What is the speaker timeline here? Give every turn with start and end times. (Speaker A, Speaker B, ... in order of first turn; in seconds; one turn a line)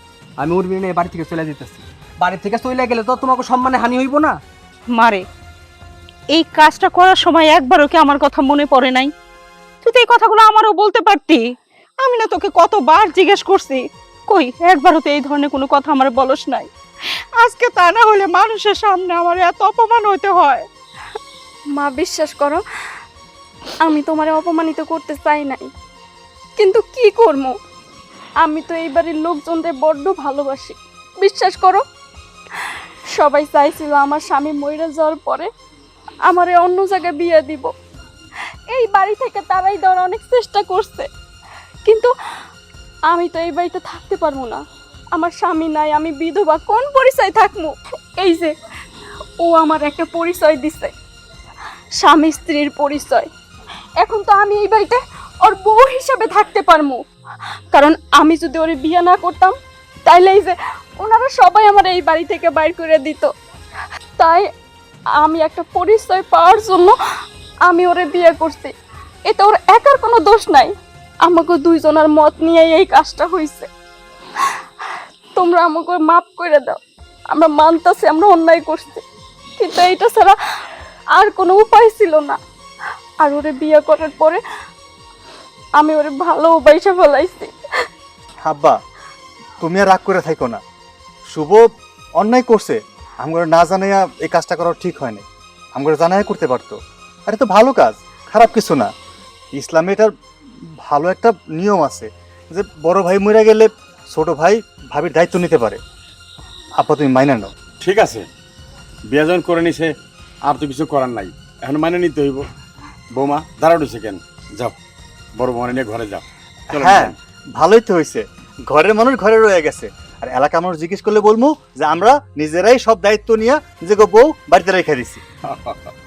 Speaker A: 0.4-4.4
Speaker B: 5.0-5.2
Speaker B: 6.3-9.1
Speaker B: 9.8-11.4
Speaker B: 12.0-16.7
Speaker B: 17.4-20.7
Speaker C: 21.7-22.6
Speaker C: 23.8-25.7
Speaker C: 26.6-27.5
Speaker C: 28.4-31.8
Speaker C: 32.6-35.5
Speaker C: 36.3-37.7
Speaker C: 38.7-41.1
Speaker C: 41.8-42.1
Speaker C: 43.1-44.6
Speaker C: 45.1-48.5
Speaker C: 49.4-50.9
Speaker C: 52.0-53.3
Speaker C: 54.0-57.0
Speaker C: 57.7-59.5
Speaker C: 60.0-63.3
Speaker C: 64.2-64.5
Speaker C: 65.2-66.9
Speaker C: 67.7-68.7
Speaker C: 69.3-73.7
Speaker C: 75.4-76.8
Speaker C: 77.3-79.0
Speaker C: 79.6-80.4
Speaker C: 81.2-82.4
Speaker C: 83.2-84.4
Speaker C: 85.8-87.5
Speaker D: 88.4-88.8
Speaker D: 89.6-90.6
Speaker D: 91.3-98.9
Speaker D: 99.5-100.1
Speaker D: 100.8-105.8
Speaker D: 106.8-107.5
Speaker E: 107.8-108.3
Speaker E: 109.1-109.9
Speaker E: 110.5-112.5
Speaker E: 113.1-114.8
Speaker E: 115.4-117.2
Speaker D: 116.7-125.2
Speaker E: 125.5-125.9